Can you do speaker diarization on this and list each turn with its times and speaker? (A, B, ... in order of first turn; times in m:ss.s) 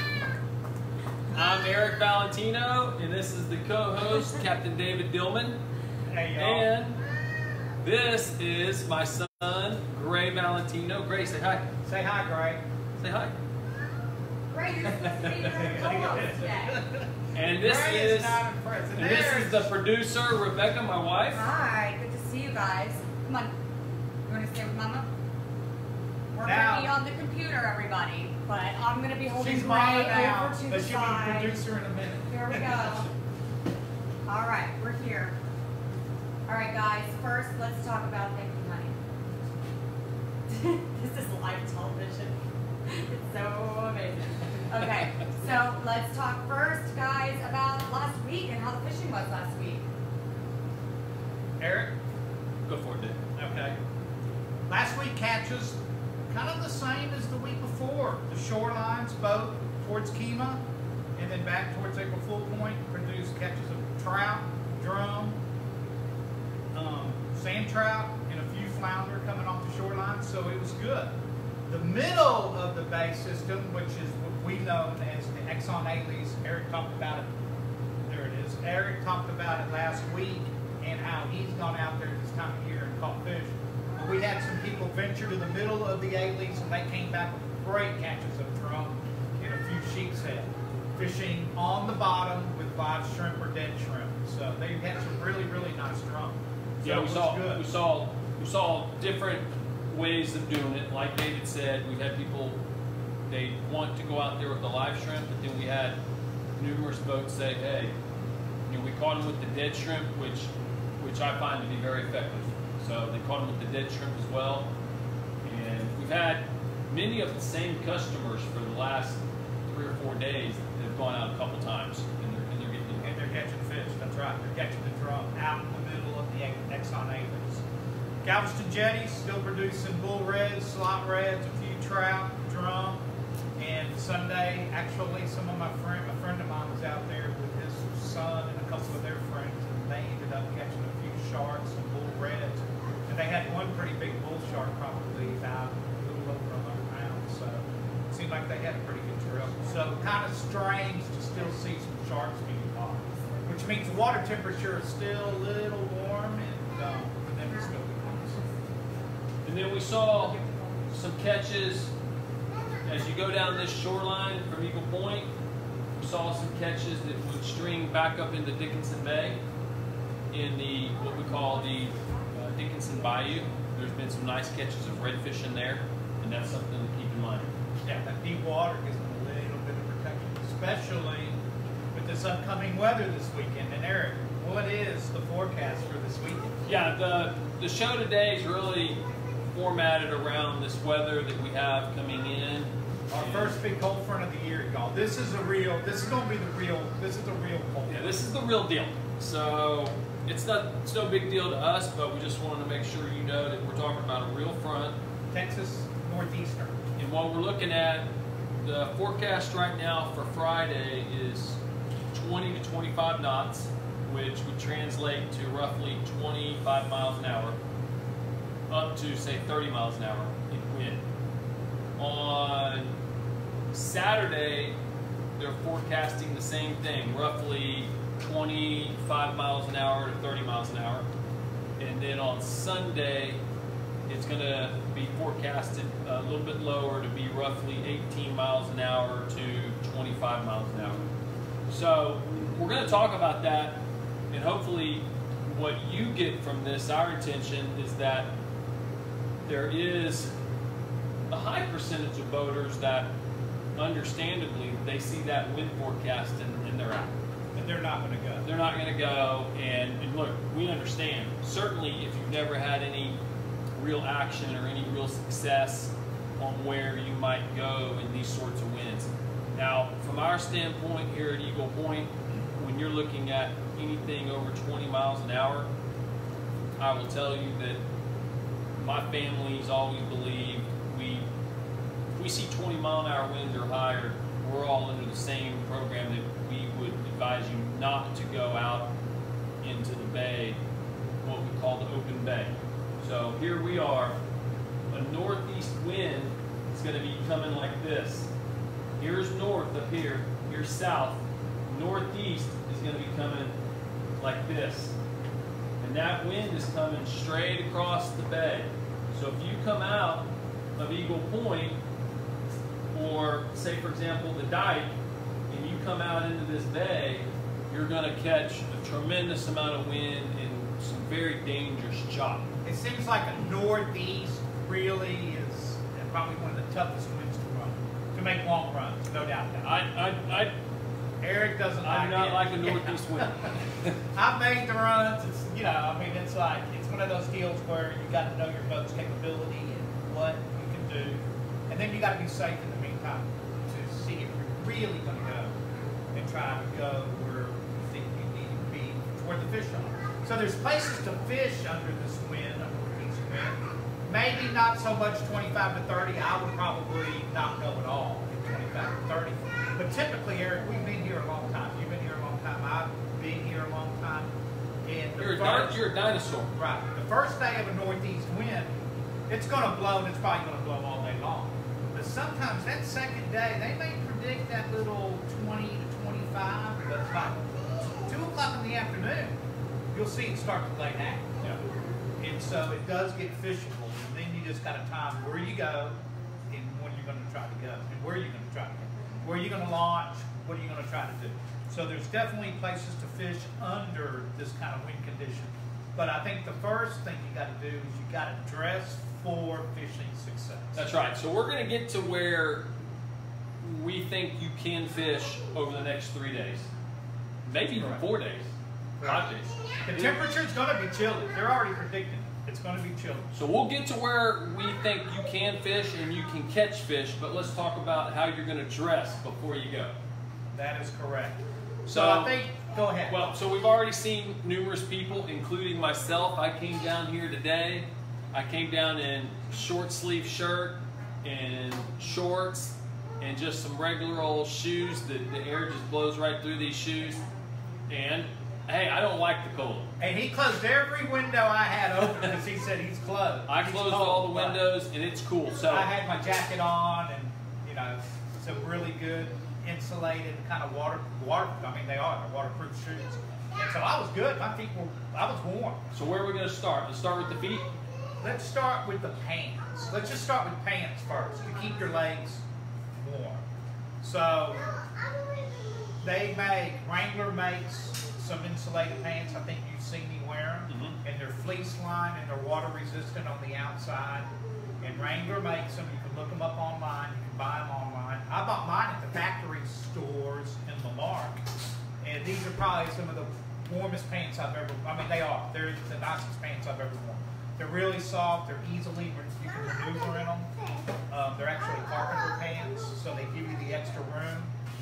0:01.3-0:05.6 A
0:06.1-0:06.7 B
0:06.4-0:07.0 A
0:07.8-0:11.7 A
0:11.8-0:12.6 B
0:13.0-0:13.4 A
0:14.5-0:16.8 C
0:15.3-0:19.7 B
0:17.3-0:18.4 A
0:19.0-0:21.4 A
0:21.3-0:23.5 C
0:24.3-0:25.1 C
0:26.3-0:31.6 C
0:26.4-0:26.9 B
0:29.3-0:32.6 B
0:32.3-0:33.1 C
0:34.2-0:35.3 C
0:36.4-0:39.0 C
0:40.5-0:49.8 C
0:44.8-0:45.0 A
0:51.6-0:52.0 B
0:52.7-0:53.2 A
0:53.3-0:53.8 B
0:54.7-1:00.6 B
1:01.2-1:05.4 B
1:06.7-1:11.1 B
1:11.7-1:17.3 B
1:18.0-1:37.6 B
1:36.8-1:42.6 A
1:43.3-1:46.0 A
1:46.6-1:48.0 A
1:48.7-1:54.7 A
1:55.4-2:03.4 A
2:03.0-2:07.6 B
2:08.2-2:13.0 B
2:13.6-2:38.4 B
2:39.4-2:40.4 A
2:40.4-2:40.7 C
2:40.9-2:41.9 A
2:42.8-2:45.3 A
2:46.0-2:49.4 A
2:50.3-2:57.5 A
2:57.8-3:01.4 B
3:01.9-3:06.6 B
3:06.6-3:13.6 A
3:13.1-3:18.1 B
3:17.8-3:25.0 A
3:25.3-3:26.9 B
3:27.0-3:28.1 A
3:28.6-3:31.6 A
3:32.1-3:37.6 A
3:38.7-3:41.0 A
3:42.0-3:43.0 A
3:43.7-3:44.8 A
3:45.4-3:51.1 A
3:51.8-3:53.4 A
3:54.1-4:01.0 A
4:01.7-4:08.3 A
4:09.4-4:10.3 A
4:11.3-4:13.1 A
4:13.7-4:17.2 A
4:17.5-4:18.4 B
4:18.4-4:23.2 A
4:23.8-4:35.7 A
4:36.8-4:37.8 A
4:38.8-4:41.3 A
4:42.1-4:48.9 A
4:49.6-4:50.6 A
4:51.2-4:54.2 A
4:54.9-4:58.3 A
4:59.0-5:03.6 A
5:04.2-5:05.0 A
5:05.8-5:11.8 A
5:12.9-5:14.9 A
5:15.5-5:22.5 A
5:22.6-5:30.5 B
5:29.6-5:30.5 A
5:31.2-5:33.4 B
5:31.8-5:34.0 A
5:34.1-5:45.6 B
5:46.1-6:04.3 B
6:04.8-6:05.9 B
6:05.2-6:06.5 A
6:06.5-6:08.7 B
6:09.3-6:19.4 B
6:19.9-6:21.4 B
6:22.2-6:26.0 B
6:26.5-6:40.9 B
6:40.7-6:42.7 A
6:43.6-6:46.7 A
6:47.4-6:48.5 A
6:47.7-6:48.0 B
6:49.0-6:49.2 B
6:49.0-6:50.2 A
6:49.8-6:53.3 B
6:53.3-6:59.9 A
7:00.5-7:03.3 B
7:01.9-7:02.4 A
7:03.1-7:17.2 A
7:17.9-7:19.9 A
7:20.0-7:24.6 B
7:23.5-7:25.9 A
7:25.6-7:35.9 B
7:35.9-7:37.7 A
7:38.2-7:43.4 B
7:44.0-7:44.6 B
7:46.0-7:54.3 B
7:50.7-7:51.0 A
7:54.8-8:01.4 B
8:02.0-8:10.5 B
8:11.1-8:14.5 B